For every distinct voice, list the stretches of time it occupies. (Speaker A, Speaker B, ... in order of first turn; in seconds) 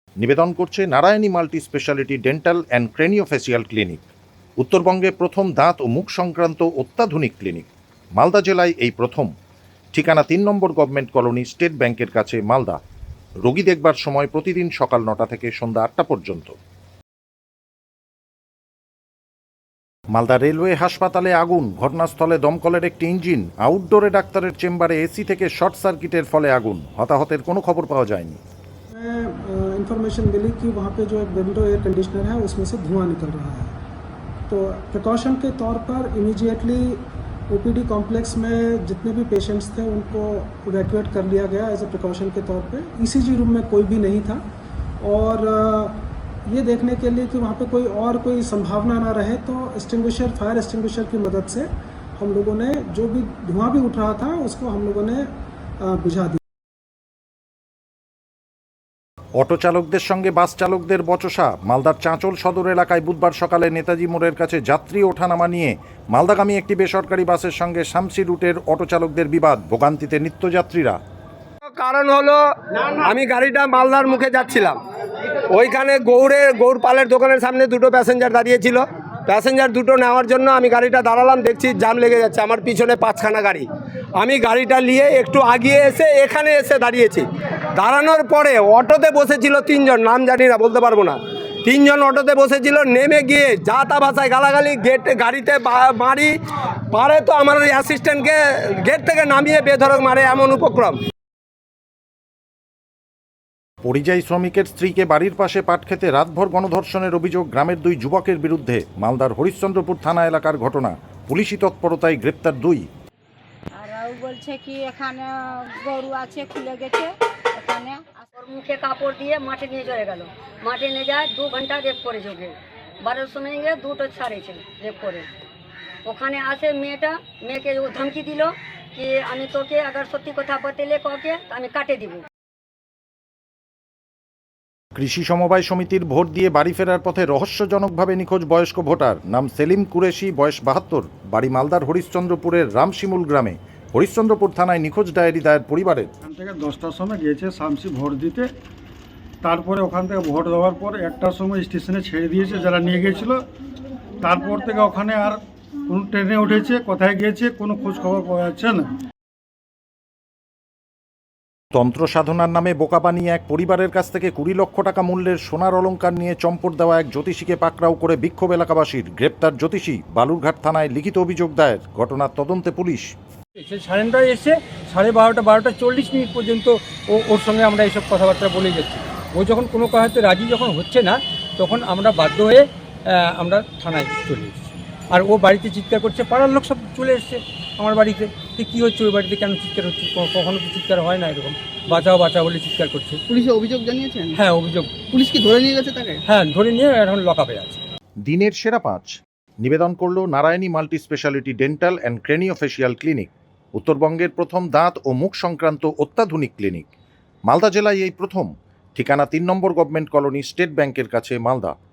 Speaker A: 0.2-4.0, 4.6-7.7, 8.2-9.3, 9.9-12.8, 13.4-16.5, 20.1-28.4, 59.4-71.0, 103.8-112.8, 135.0-146.1, 161.7-173.1, 198.2-206.9, 207.5-211.7
Speaker B: 28.9-33.7, 34.5-44.4, 45.0-56.4
Speaker C: 71.7-74.8, 75.5-96.3, 96.9-101.0
Speaker D: 113.8-118.2
Speaker E: 118.3-125.2, 126.0-132.2
Speaker F: 146.2-148.5, 149.4-153.4, 154.2-158.9
Speaker G: 173.6-193.2, 194.3-195.0, 196.3-197.8
Speaker H: 193.3-194.4, 195.1-196.2